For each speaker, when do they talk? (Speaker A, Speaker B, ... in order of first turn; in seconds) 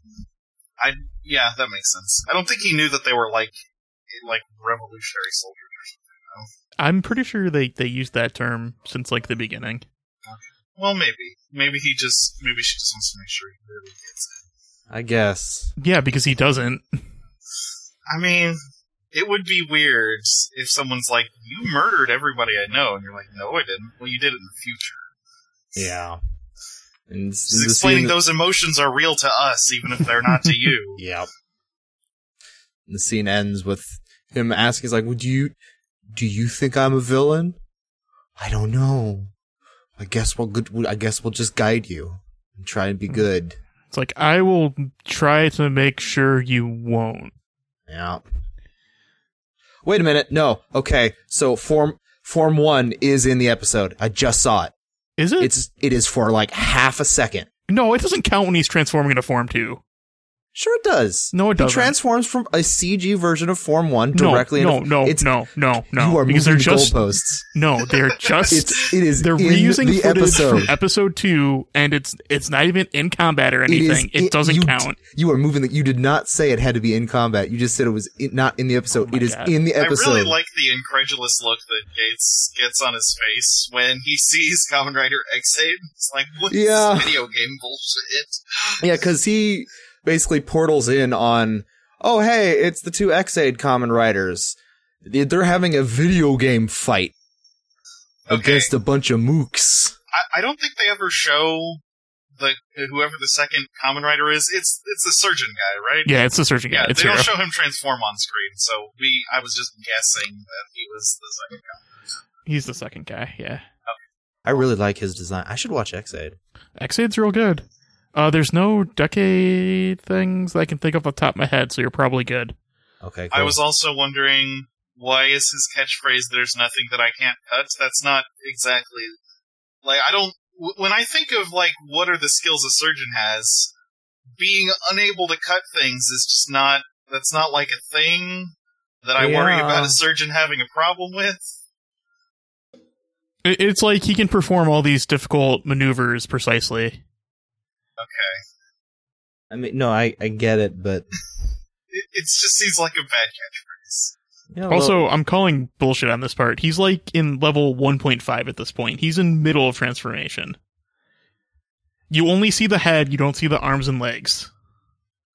Speaker A: 0.8-3.5, 4.1-6.5, 10.3-14.4, 18.1-18.6, 19.1-25.1, 27.5-31.0, 68.2-68.5, 79.8-88.8, 98.3-98.7, 100.1-101.8, 102.4-106.1, 106.7-111.9, 123.3-129.2, 129.8-133.7, 134.4-138.5, 139.1-141.5, 148.0-148.4, 151.9-154.1
Speaker B: 6.8-9.8, 15.8-17.0, 43.9-47.3, 55.2-55.5, 57.7-59.8, 61.3-62.0, 64.1-67.0, 67.5-75.0, 78.9-79.5, 106.1-107.3, 112.5-113.7, 116.8-122.5, 143.4-147.0, 154.7-160.6, 162.1-164.5
Speaker C: 14.9-15.7, 25.8-26.2, 27.1-28.2, 31.0-31.3, 32.9-35.5, 36.1-37.6, 38.4-39.3, 40.0-43.6, 47.9-48.2, 49.9-54.7, 55.4-57.5, 60.5-65.3, 65.9-67.4, 68.5-70.7, 73.7-80.3, 86.5-87.2, 88.8-97.1, 98.3-100.0, 114.5-116.4, 123.0-123.6, 139.2-140.0, 149.5-151.1, 154.5-155.1